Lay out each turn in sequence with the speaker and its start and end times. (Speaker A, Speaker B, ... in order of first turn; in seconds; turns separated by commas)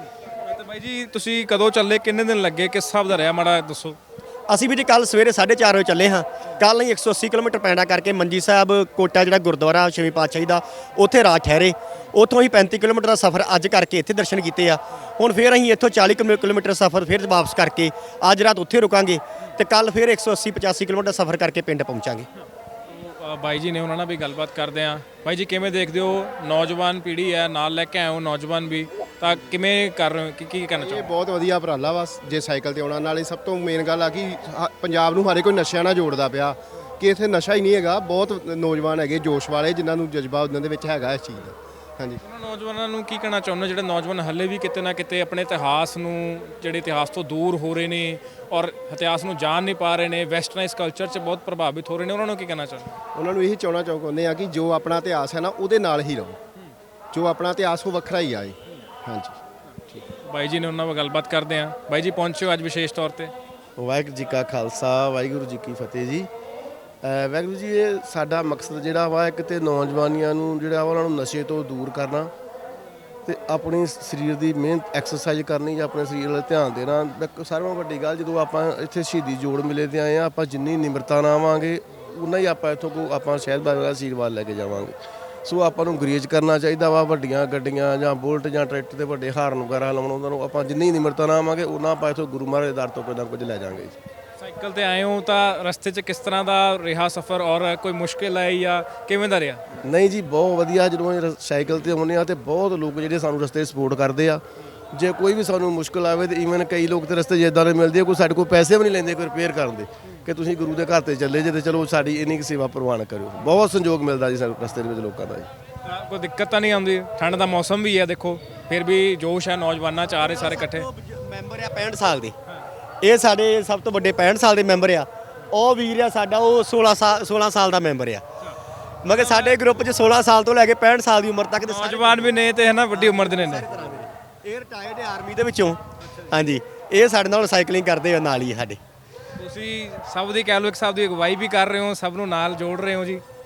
Speaker A: 0.5-4.0, Speaker B: 4.5-22.3, Speaker A: 22.9-31.1, Speaker C: 30.8-42.2, Speaker B: 32.5-33.1, Speaker B: 33.6-34.5, Speaker B: 35.3-35.8, Speaker B: 37.5-37.9, Speaker B: 39.7-40.1, Speaker B: 40.8-41.5, Speaker A: 42.2-53.0, Speaker B: 53.2-54.2, Speaker C: 53.2-56.3, Speaker B: 54.8-56.4, Speaker C: 57.1-58.5, Speaker B: 57.2-58.5, Speaker B: 59.1-59.3, Speaker A: 60.2-63.3, Speaker D: 63.8-66.3, Speaker D: 67.0-72.3, Speaker D: 73.3-94.0, Speaker A: 94.4-99.6, Speaker D: 99.8-104.4, Speaker D: 104.9-115.5, Speaker A: 115.8-120.9, Speaker B: 120.2-122.3, Speaker B: 123.0-128.2, Speaker B: 129.0-132.3, Speaker A: 129.2-129.6, Speaker A: 131.6-133.7, Speaker B: 132.9-138.8, Speaker A: 139.4-143.2